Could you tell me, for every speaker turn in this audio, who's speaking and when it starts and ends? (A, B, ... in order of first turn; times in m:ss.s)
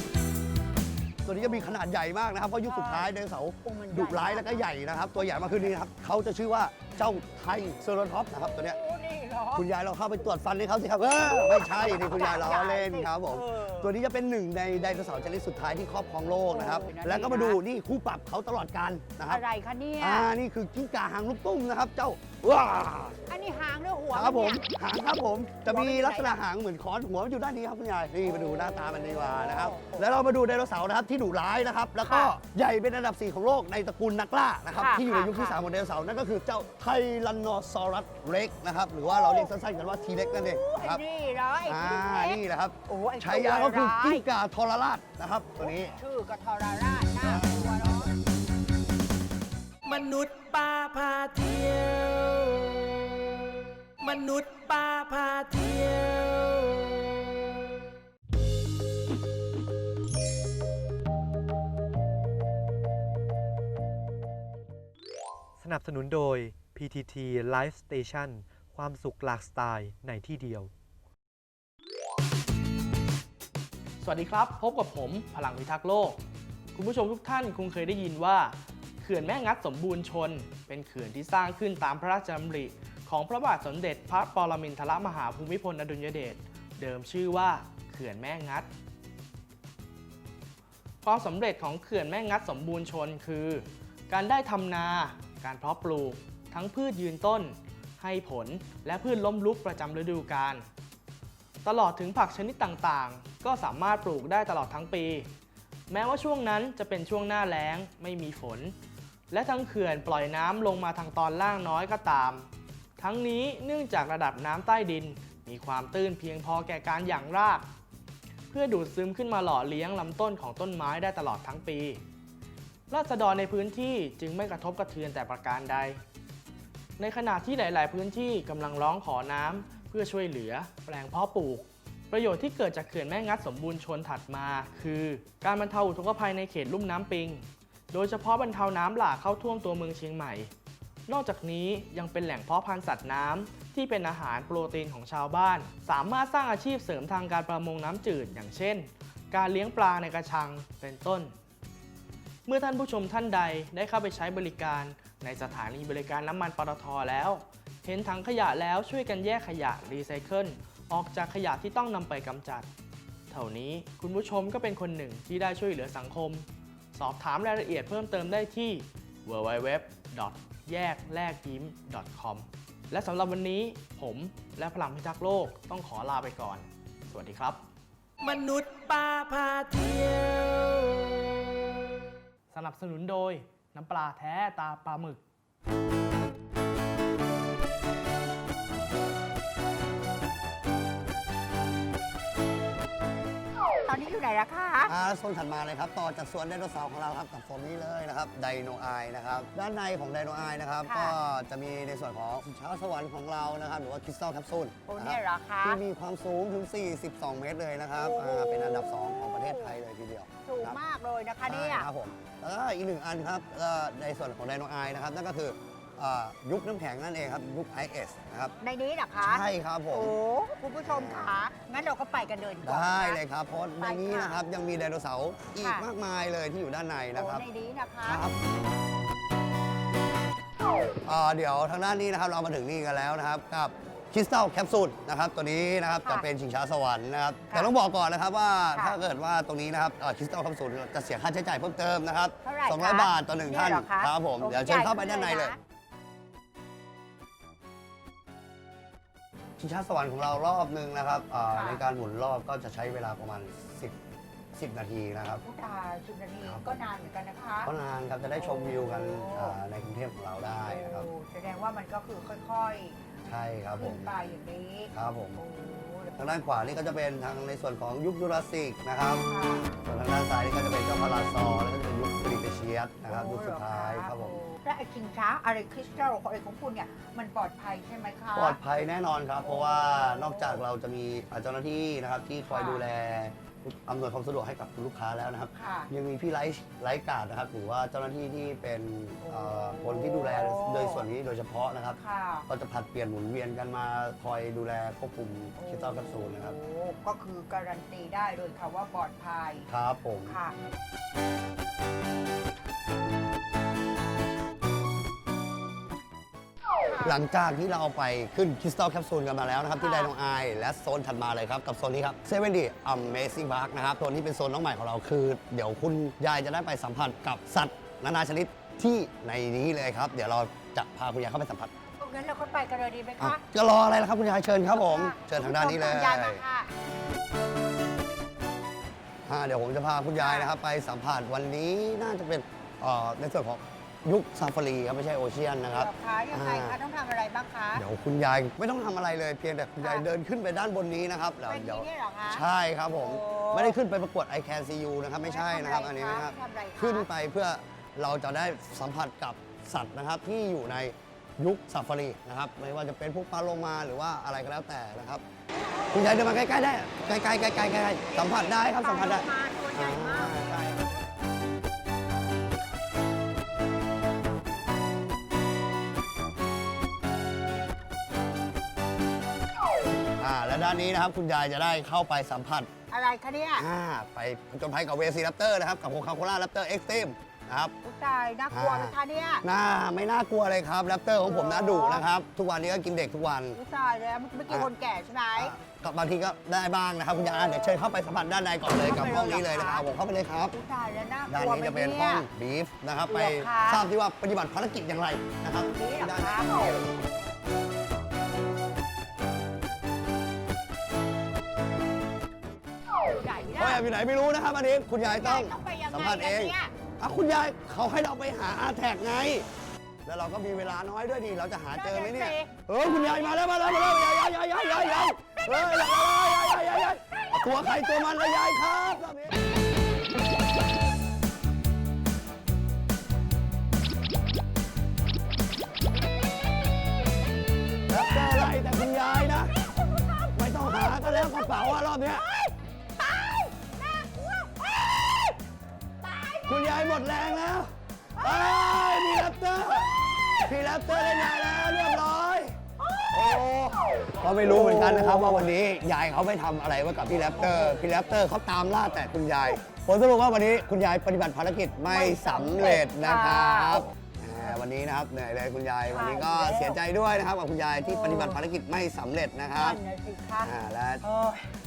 0:01.2-0:08.8 A
0:01.4-0:01.7 B
0:02.6-0:03.1 B
0:03.6-0:04.6 B
0:05.3-0:05.7 B
0:08.4-0:09.6 B
0:09.5-0:19.4 A
0:11.3-0:13.9 B
0:16.5-0:17.6 B
0:19.3-0:20.3 B
0:20.0-0:23.2 A
0:23.3-0:24.6 B
0:24.1-0:41.0 A
0:25.7-0:26.4 B
0:28.2-0:30.1 B
0:32.0-0:32.3 B
0:34.8-0:35.6 B
0:39.1-0:39.5 B
0:40.2-0:44.2 B
0:41.6-0:45.9 A
0:45.6-0:48.1 B
0:47.2-0:47.7 A
0:49.8-0:53.1 C
0:54.0-0:57.1 C
1:05.6-1:10.7 D
1:14.0-1:16.2 E
1:16.7-1:28.7 E
1:31.0-1:40.6 E
1:41.6-1:45.3 E
1:45.9-1:48.7 E
1:49.3-1:57.7 E
1:58.5-2:02.0 E
2:02.9-2:06.0 E
2:07.0-2:20.5 E
2:21.1-2:31.3 E
2:32.4-2:42.7 E
2:43.3-2:57.6 E
2:58.2-3:01.2 C
3:02.5-3:05.2 E
3:13.8-3:14.9 B
3:14.9-3:30.8 A
3:20.8-3:21.2 B
3:24.9-3:25.8 B
3:28.0-3:29.7 B
3:30.4-3:31.9 B
3:31.5-3:38.6 A
3:38.6-3:43.2 B
3:39.2-3:40.1 A
3:40.8-3:41.4 A
3:42.6-3:47.4 A
3:43.8-3:44.4 B
3:47.1-3:48.2 B
3:48.0-3:48.8 A
3:51.0-4:05.5 A
4:02.4-4:05.6 B
4:09.6-4:14.0 A
4:11.5-4:11.8 B
4:14.5-4:15.4 A
4:15.4-4:17.7 B
4:16.4-4:16.8 A
4:17.6-4:21.1 A
4:18.4-4:19.6 B
4:20.6-4:23.0 B
4:23.3-4:24.1 A
4:23.8-4:26.1 B
4:24.9-4:25.4 A
4:26.2-4:29.2 A
4:29.3-4:29.8 B
4:29.8-4:34.4 A
4:33.1-4:38.6 B
4:38.3-4:56.5 A
4:39.4-4:40.6 B
4:42.5-4:42.8 B
4:45.5-4:45.9 B
4:49.2-4:51.1 B
4:52.0-4:52.4 B
4:55.6-4:59.7 B
4:59.6-5:00.4 A
5:00.3-5:00.5 B
5:06.9-5:07.2 B
5:07.0-5:21.7 A
5:09.8-5:10.1 B
5:22.0-5:23.4 B
5:23.2-5:26.4 A
5:24.7-5:26.7 B
5:29.3-5:36.8 A
5:30.2-5:30.5 B
5:35.7-5:37.8 B
5:37.7-5:55.2 A
5:39.8-5:40.0 B
5:41.4-5:42.4 B
5:43.0-5:43.8 B
5:45.2-5:47.1 B
5:55.9-6:00.9 A
5:58.1-6:00.5 B
6:10.2-6:12.7 A
6:12.9-6:13.6 B
6:13.6-6:17.7 A
6:17.8-6:19.4 B
6:18.5-6:23.6 A
6:21.2-6:22.0 B
6:23.5-6:25.5 B
6:25.4-6:30.6 A
6:28.8-6:29.8 B
6:30.5-6:32.3 B
6:31.3-6:36.7 A
6:33.1-6:33.9 B
6:35.6-6:36.7 B
6:43.1-6:43.8 B
6:43.6-6:49.5 A
6:45.0-6:46.7 B
6:50.0-6:59.4 A
6:51.7-6:52.5 B
7:07.9-7:09.5 A
7:08.1-7:15.4 B
7:10.3-7:12.2 A
7:16.0-7:16.7 B
7:16.4-7:22.6 A
7:18.2-7:19.1 B
7:22.8-7:23.4 B
7:23.1-7:39.8 A
7:24.5-7:25.4 B
7:27.4-7:27.8 B
7:31.9-7:33.9 B
7:35.9-7:36.8 B
7:37.8-7:38.4 B
7:39.5-7:41.5 B
7:40.4-7:41.0 A